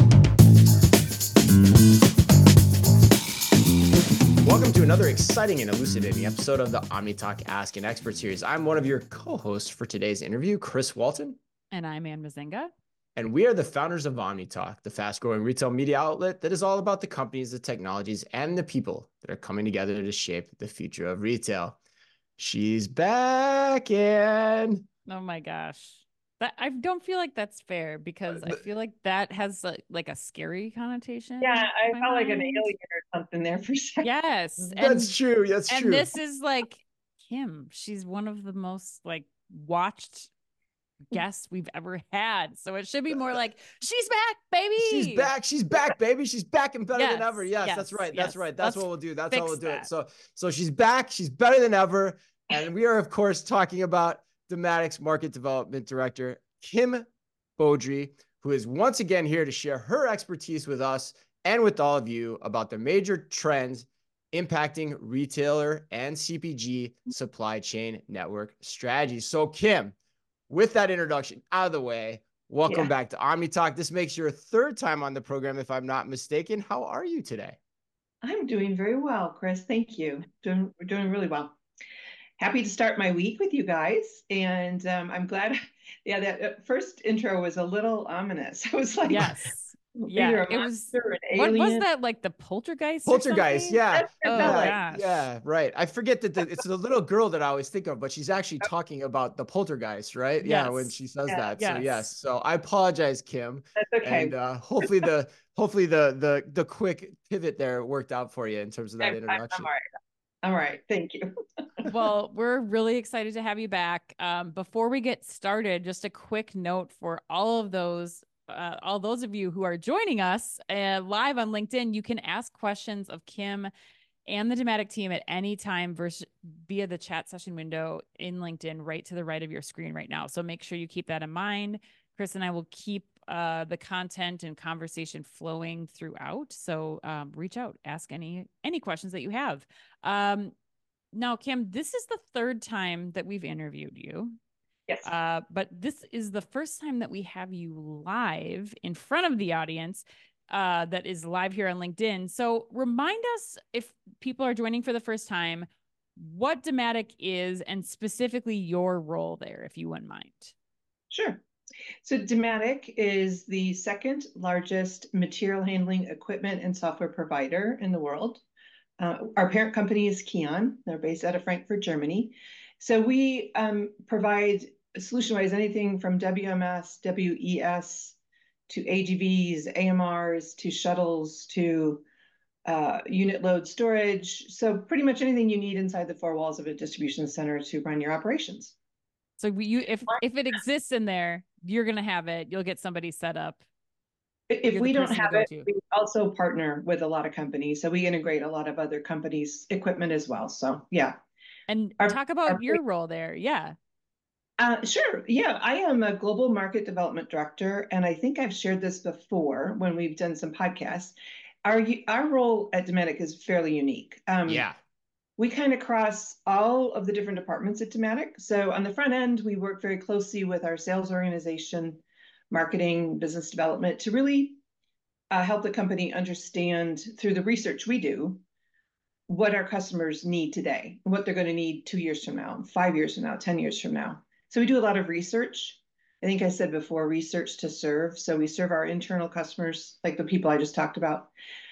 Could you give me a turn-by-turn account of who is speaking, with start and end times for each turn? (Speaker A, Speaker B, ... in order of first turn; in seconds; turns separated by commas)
Speaker A: 4.4-11.4, Speaker B: 11.7-12.7, Speaker A: 13.2-21.8, Speaker A: 22.4-24.9, Speaker B: 25.1-32.7, Speaker C: 31.4-34.1, Speaker B: 34.0-35.1, Speaker A: 34.8-36.1, Speaker B: 35.7-40.3, Speaker B: 41.1-45.3, Speaker A: 44.8-70.0, Speaker B: 46.9-49.9, Speaker A: 70.5-77.6, Speaker C: 72.7-72.9, Speaker C: 78.2-81.6, Speaker C: 82.4-89.5, Speaker B: 89.1-95.2, Speaker C: 90.0-91.9, Speaker A: 93.1-109.7, Speaker C: 93.9-94.8, Speaker B: 100.4-100.9, Speaker B: 101.6-102.1, Speaker C: 103.8-105.1, Speaker C: 109.0-109.8, Speaker C: 110.4-111.3, Speaker B: 111.8-123.7, Speaker B: 124.3-140.6, Speaker B: 141.1-144.4, Speaker B: 145.0-160.5, Speaker C: 161.1-161.4, Speaker C: 162.0-168.4, Speaker C: 169.0-178.2, Speaker C: 178.7-182.0, Speaker C: 182.7-188.8, Speaker B: 189.4-193.6, Speaker C: 194.5-201.2, Speaker B: 194.7-195.7, Speaker B: 201.7-203.8, Speaker C: 202.0-202.8, Speaker C: 204.6-214.7, Speaker A: 214.5-214.8, Speaker C: 215.4-224.6, Speaker C: 225.3-228.4, Speaker C: 229.3-241.3